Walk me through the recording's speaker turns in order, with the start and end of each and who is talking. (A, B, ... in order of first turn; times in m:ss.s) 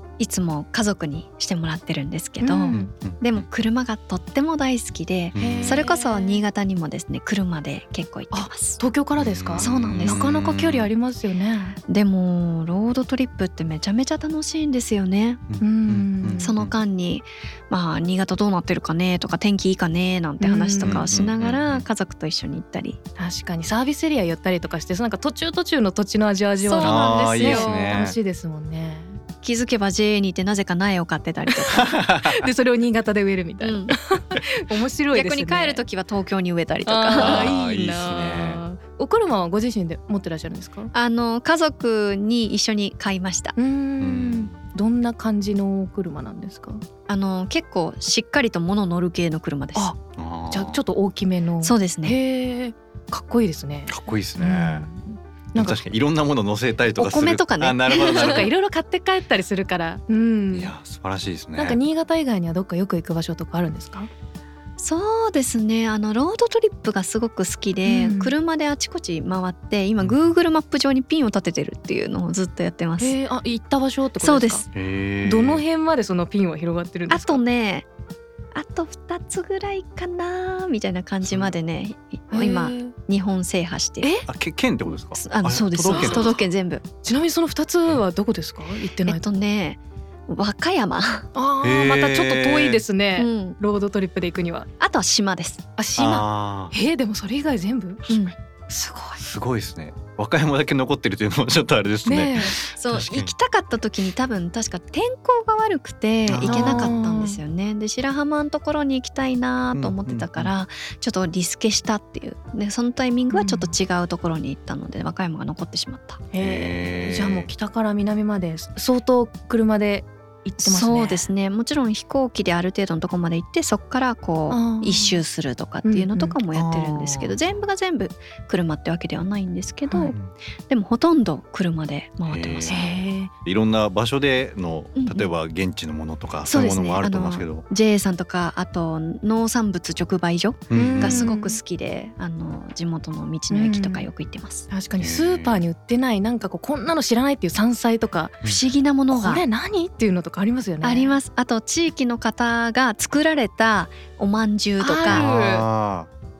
0:00.2-0:08.8 A
0:02.4-0:02.9 B
0:02.7-0:03.5 C
0:05.3-0:05.9 C
0:05.4-0:06.4 B
0:08.3-0:11.8 B
0:09.2-0:10.9 C
0:09.6-0:10.2 A
0:11.9-0:15.4 A
0:15.5-0:16.8 C
0:15.6-0:16.5 B
0:16.4-0:23.0 A
0:20.4-0:21.0 B
0:20.8-0:21.8 C
0:23.2-0:29.2 B
0:26.6-0:28.1 A
0:26.8-0:28.2 C
0:29.4-0:32.0 A
0:31.8-0:32.4 C
0:32.2-0:35.8 B
0:33.6-0:34.0 A
0:35.1-0:37.5 A
0:36.8-0:40.9 B
0:37.2-0:38.6 C
0:40.9-0:43.6 A
0:43.6-0:46.8 B
0:44.0-0:44.6 C
0:47.1-0:49.9 A
0:50.2-0:50.8 C
0:50.5-0:55.8 B
0:51.6-0:52.1 A
0:53.9-0:54.9 C
0:55.6-0:58.5 C
0:57.0-0:58.5 A
0:57.9-1:00.7 B
1:00.5-1:01.8 C
1:01.6-1:04.1 B
1:04.8-1:13.2 A
1:07.8-1:08.3 B
1:10.0-1:10.3 C
1:13.0-1:14.6 B
1:14.2-1:14.6 A
1:14.7-1:15.6 C
1:15.2-1:17.4 B
1:17.1-1:17.9 A
1:18.5-1:24.1 A
1:21.2-1:21.5 C
1:22.3-1:22.9 B
1:24.0-1:24.3 B
1:24.3-1:26.4 C
1:25.1-1:26.8 A
1:25.9-1:26.3 B
1:27.0-1:29.2 B
1:29.0-1:31.3 A
1:31.3-1:34.7 B
1:31.6-1:32.8 C
1:33.2-1:33.6 A
1:34.8-1:35.6 A
1:35.8-1:38.1 B
1:36.0-1:36.7 C
1:38.1-1:38.3 A
1:38.7-1:39.2 B
1:39.2-1:43.3 C
1:42.0-1:42.6 B
1:42.5-1:56.2 A
1:46.2-1:46.9 C
1:46.4-1:47.4 B
1:49.7-1:50.5 C
1:53.3-1:53.7 B
1:56.3-2:01.3 B
1:56.4-1:57.5 C
2:00.6-2:12.8 A
2:04.5-2:05.2 B
2:05.8-2:06.4 B
2:06.5-2:07.3 C
2:09.9-2:10.1 B
2:12.2-2:17.6 C
2:12.7-2:13.3 B
2:14.9-2:15.3 A
2:16.4-2:24.7 A
2:20.7-2:21.3 C
2:20.7-2:21.6 B
2:23.5-2:24.1 B
2:24.7-2:28.4 B
2:25.0-2:25.6 C
2:28.4-2:29.4 A
2:29.1-2:31.2 B
2:30.8-2:35.3 A
2:34.8-2:35.6 B
2:35.0-2:36.1 C